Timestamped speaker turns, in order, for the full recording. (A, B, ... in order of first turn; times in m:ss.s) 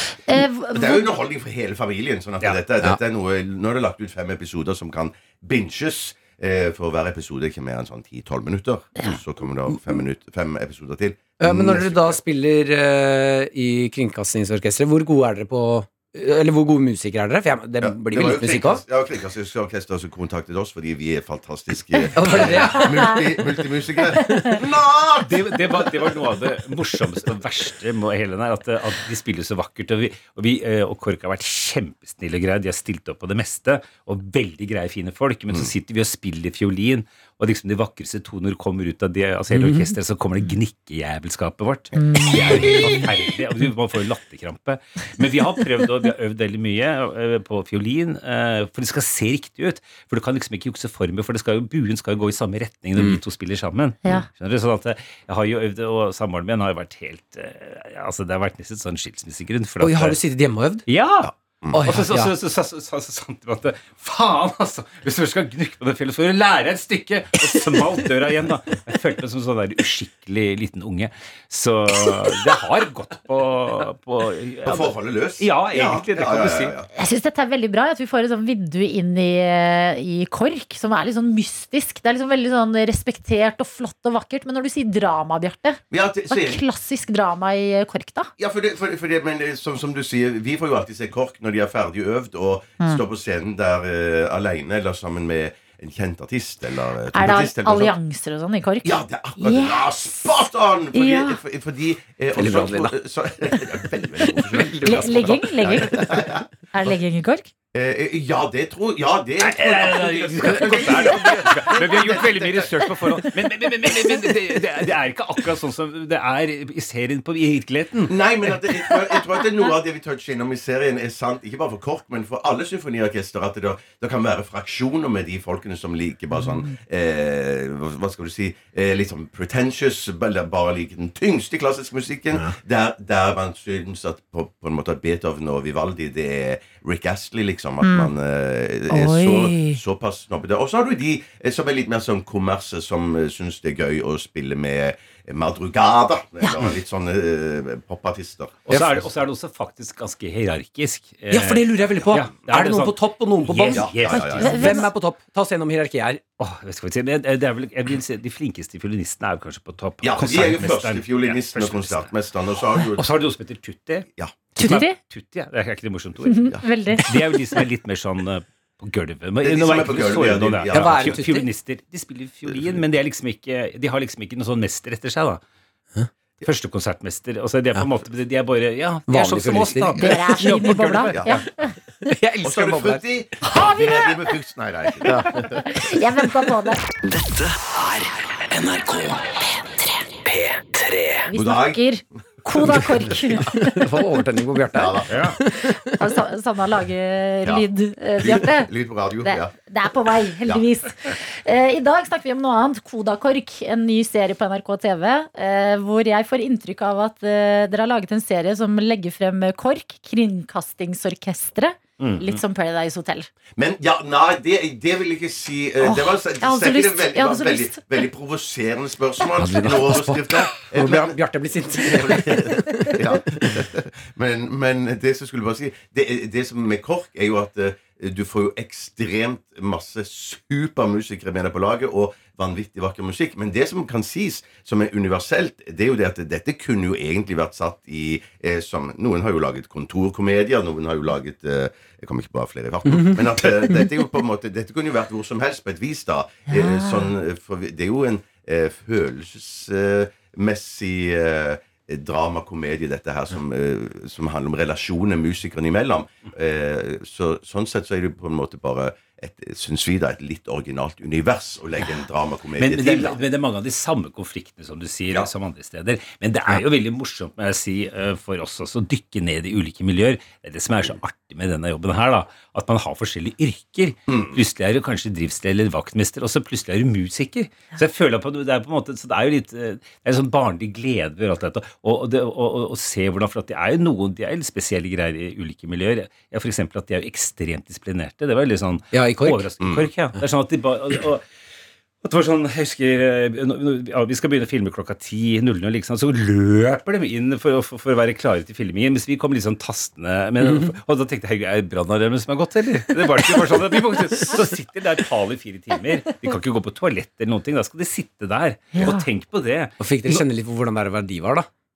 0:00.3-0:01.0 A
0:00.6-0:12.2 B
0:11.4-0:18.8 C
0:17.8-0:26.3 B
0:22.2-0:23.2 C
0:24.2-0:24.6 C
0:25.2-1:00.2 D
0:39.5-0:39.9 C
0:42.0-0:42.3 A
0:42.6-0:42.9 B
0:59.8-1:00.9 C
1:00.9-1:16.7 D
1:01.2-1:01.8 B
1:01.7-1:02.3 C
1:14.6-1:16.9 B
1:16.9-1:28.3 A
1:25.9-1:26.6 B
1:28.4-1:38.0 B
1:37.1-1:40.1 A
1:38.8-1:46.4 B
1:40.9-1:41.4 A
1:42.3-1:43.0 C
1:44.5-1:45.4 C
1:44.8-1:46.2 A
1:46.7-1:47.5 A
1:47.7-1:53.1 B
1:49.4-1:59.2 D
1:58.1-2:29.1 B
2:17.8-2:18.1 A
2:18.9-2:19.8 A
2:28.6-2:34.6 D
2:31.3-2:36.2 C
2:33.7-2:34.6 B
2:34.1-2:34.9 A
2:36.4-2:42.1 D
2:40.0-2:43.1 B
2:42.8-2:55.4 D
2:44.1-2:44.5 B
2:44.6-2:45.0 A
2:46.3-2:47.1 A
2:49.4-2:51.2 B
2:50.7-2:51.4 C
2:52.4-2:52.8 B
2:56.4-3:01.4 D
2:59.1-3:01.0 C
3:00.0-3:01.7 A
3:01.1-3:01.4 B
3:02.0-3:03.0 C
3:02.4-3:05.7 B
3:03.4-3:04.3 A
3:05.0-3:05.4 C
3:05.6-3:06.8 A
3:07.0-3:11.3 E
3:11.3-3:13.8 A
3:11.3-3:11.8 B
3:12.5-3:13.4 B
3:13.6-3:15.8 C
3:14.7-3:15.2 B
3:15.1-3:15.4 D
3:15.8-3:18.7 A
3:18.2-3:19.5 B
3:19.2-3:33.3 A
3:32.0-3:32.4 D
3:33.6-3:41.2 B
3:35.8-3:37.8 A
3:39.4-3:43.4 C
3:41.8-4:23.2 B
4:02.9-4:03.2 C
4:06.5-4:07.1 A
4:22.6-4:51.2 D
4:34.1-4:34.4 B
4:48.9-4:49.5 C
4:49.6-4:49.9 B
4:52.0-5:10.2 D
5:00.4-5:00.7 C
5:03.3-5:03.6 C
5:08.7-5:09.0 A
5:09.8-5:11.5 C